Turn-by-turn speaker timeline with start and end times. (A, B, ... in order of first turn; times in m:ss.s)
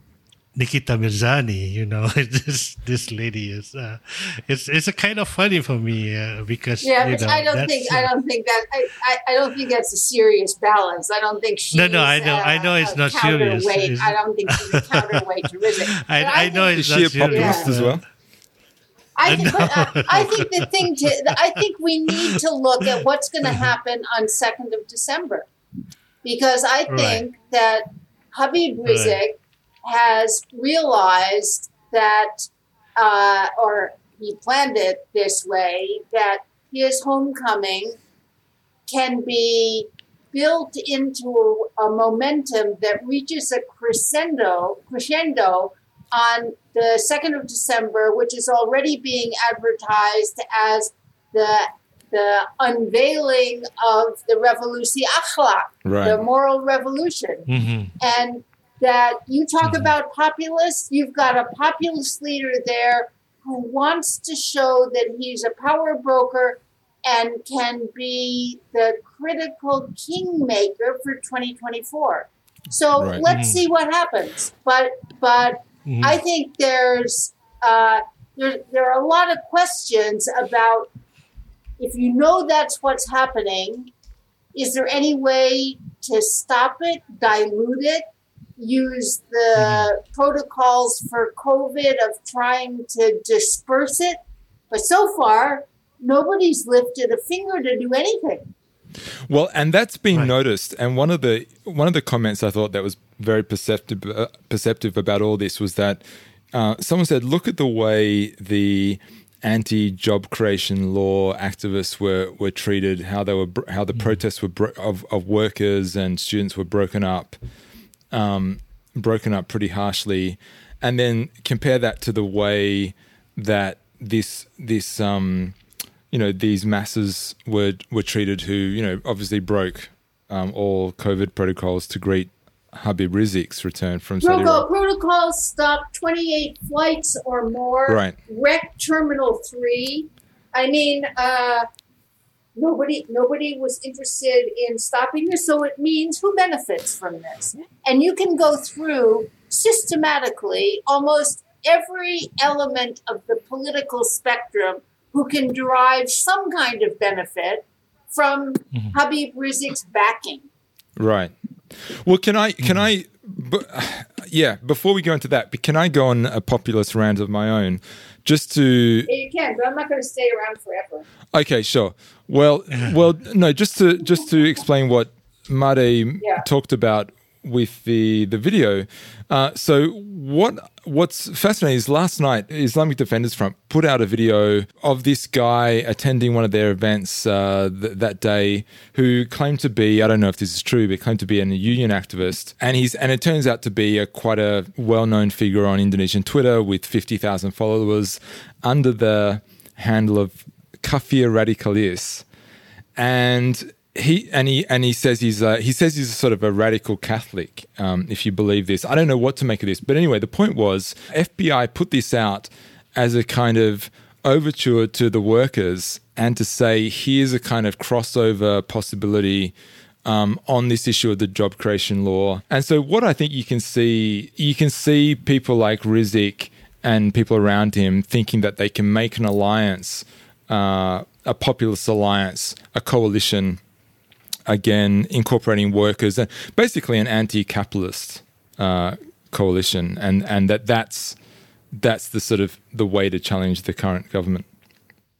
0:00.6-0:08.1 A
0:06.8-0:17.7 B
0:11.7-0:15.2 A
0:16.0-0:18.0 A
0:16.8-0:18.0 C
0:19.2-0:25.5 B
0:19.3-0:20.9 A
0:26.2-0:38.0 B
0:26.9-0:27.2 A
0:28.8-0:29.2 A
0:38.9-0:57.5 B
0:55.8-0:56.2 C
0:57.5-0:57.9 A
0:58.0-1:20.9 B
0:59.6-0:59.9 A
1:13.0-1:13.2 C
1:13.3-1:13.6 A
1:15.8-1:16.2 A
1:21.8-1:23.9 B
1:24.5-1:28.0 B
1:28.6-1:34.2 B
1:29.6-1:29.9 A
1:34.7-1:38.5 B
1:39.3-1:57.4 C
1:58.1-2:05.6 C
2:06.1-2:14.7 C
2:14.2-2:21.7 B
2:17.9-2:18.2 C
2:22.6-2:40.5 B
2:41.0-2:49.1 C
2:42.6-2:42.9 A
2:49.1-2:51.1 B
2:51.3-3:22.2 C
2:56.2-2:56.4 B
3:23.0-3:53.6 C
3:54.5-4:01.2 C
4:01.7-4:04.5 C